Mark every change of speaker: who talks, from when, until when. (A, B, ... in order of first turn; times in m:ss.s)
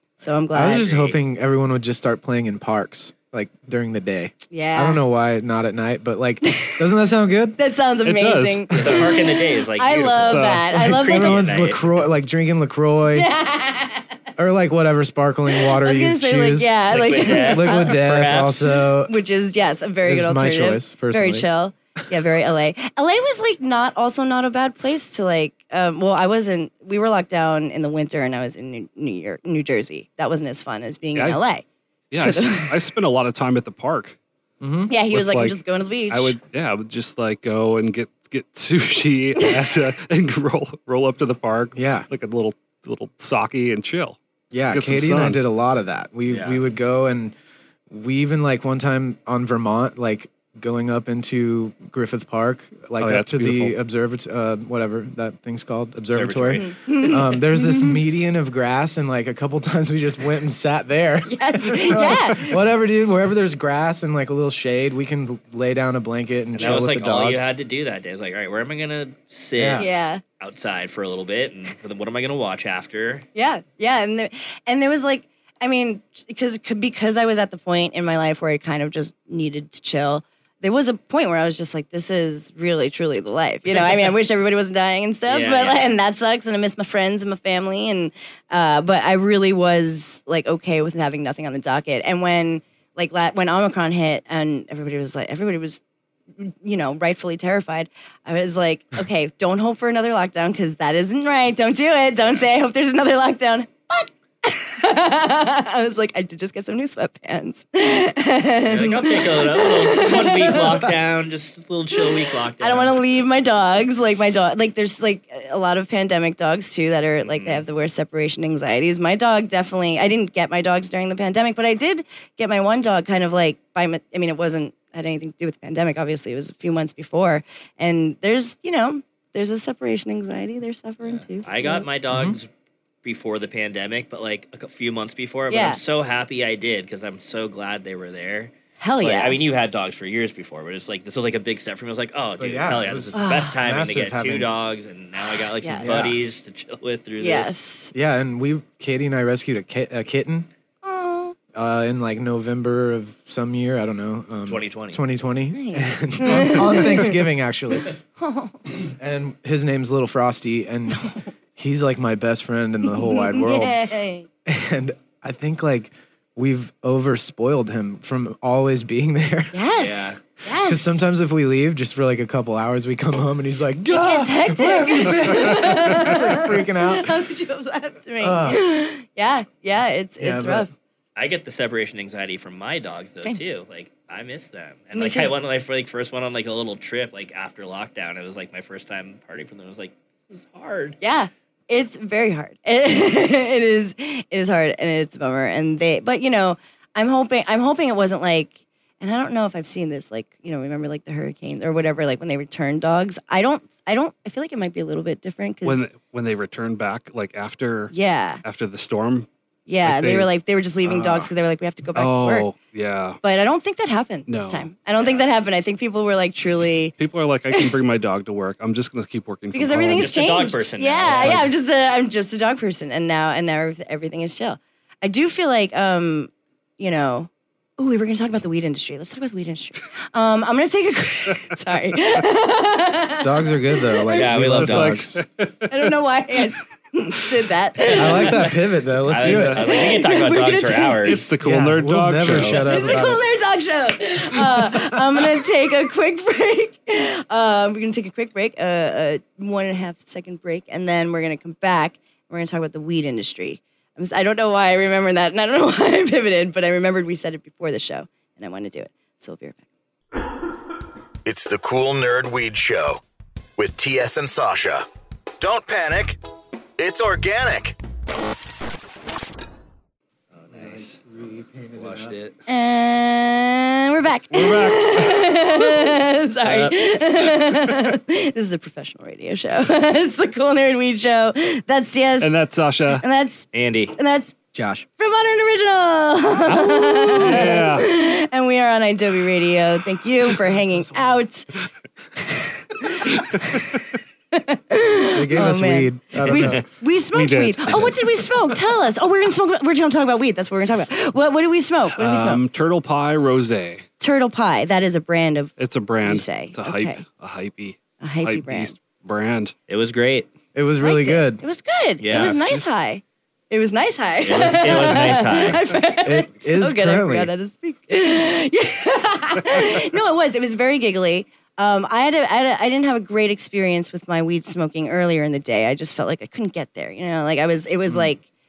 0:00.2-0:00.9 A
0:00.2-0:01.2 B
0:00.5-0:07.6 C
0:04.5-0:05.0 A
0:06.4-0:06.9 A
0:07.6-0:11.4 A
0:08.0-0:09.2 D
0:08.7-0:11.8 B
0:10.2-0:10.7 D
0:10.8-0:13.3 C
0:13.1-0:14.0 A
0:14.4-0:19.1 C
0:15.6-0:17.9 A
0:16.9-0:18.8 B
0:19.1-0:31.6 A
0:20.0-0:21.5 C
0:31.1-0:31.4 D
0:32.1-0:34.2 D
0:32.2-0:32.8 A
0:34.6-0:34.9 C
0:34.9-0:36.4 A
0:35.1-0:44.2 D
0:41.7-0:42.1 C
0:44.5-0:47.3 C
0:44.7-0:45.4 D
0:46.3-0:46.6 B
0:47.9-1:07.5 C
0:53.0-0:53.8 D
0:56.1-0:56.8 B
0:56.6-0:58.0 A
1:01.3-1:02.6 A
1:06.5-1:13.2 B
1:09.6-1:09.8 C
1:09.8-1:10.2 A
1:13.3-1:35.8 A
1:23.8-1:24.0 B
1:25.3-1:26.0 B
1:36.4-1:50.9 A
1:48.7-1:53.0 B
1:52.6-2:11.8 A
1:57.2-1:57.6 B
2:11.0-2:12.5 B
2:12.1-2:12.4 C
2:13.0-2:27.5 B
2:15.5-2:15.8 A
2:18.8-2:19.4 A
2:22.4-2:24.5 C
2:23.1-2:23.6 A
2:25.2-2:26.2 A
2:25.8-2:26.2 C
2:27.2-2:27.9 A
2:27.9-2:30.5 C
2:30.8-2:31.4 A
2:31.5-2:37.9 C
2:34.4-2:35.0 B
2:35.5-2:37.2 A
2:38.2-2:38.6 A
2:39.0-2:43.8 C
2:40.9-2:41.3 A
2:42.8-2:44.2 A
2:44.4-2:49.6 C
2:49.5-2:51.0 A
2:49.8-2:50.2 B
2:50.5-2:57.1 C
2:53.9-3:00.7 A
2:58.2-2:58.6 C
3:00.2-3:00.7 C
3:01.2-3:11.0 B
3:04.9-3:05.3 A
3:11.0-3:25.9 A
3:25.6-3:29.3 D
3:27.9-3:28.4 A
3:29.7-3:32.5 A
3:29.8-3:30.3 D
3:30.8-3:31.3 C
3:31.9-3:33.2 D
3:33.2-3:37.0 A
3:34.3-3:34.7 D
3:35.0-3:35.3 B
3:37.0-3:40.1 D
3:39.5-3:54.4 A
3:39.9-3:41.5 B
3:41.2-3:41.5 D
3:53.2-3:55.2 C
3:54.1-3:55.1 B
3:54.5-3:55.7 D
3:55.7-3:58.5 A
3:57.9-3:59.6 C
3:57.9-3:58.5 B
3:59.0-4:01.3 B
3:59.2-3:59.6 D
3:59.5-4:01.2 A
4:01.0-4:02.6 D
4:01.4-4:03.2 C
4:02.5-4:19.6 A
4:21.2-4:23.0 E
4:23.6-4:24.8 E
4:25.4-4:26.2 E
4:26.8-4:27.8 E
4:30.3-4:31.0 B
4:30.5-4:32.2 C
4:31.7-4:32.3 B
4:32.5-4:42.3 A
4:34.3-4:35.9 D
4:42.2-4:43.0 D
4:42.9-4:44.3 A
4:43.5-4:44.0 B
4:44.5-4:44.8 C
4:45.0-4:51.5 A
4:46.5-4:47.9 D
4:52.2-4:53.8 A
4:54.3-5:02.4 A
4:55.1-4:56.6 C
4:56.2-4:56.6 D
4:57.1-4:58.3 D
5:01.9-5:03.8 D
5:04.0-5:05.5 A
5:05.6-5:09.5 D
5:06.0-5:07.0 A
5:08.0-5:08.7 A
5:09.7-5:10.3 B
5:10.5-5:11.4 C
5:10.8-5:28.2 A
5:12.0-5:12.4 B
5:14.2-5:15.6 B
5:16.0-5:17.3 C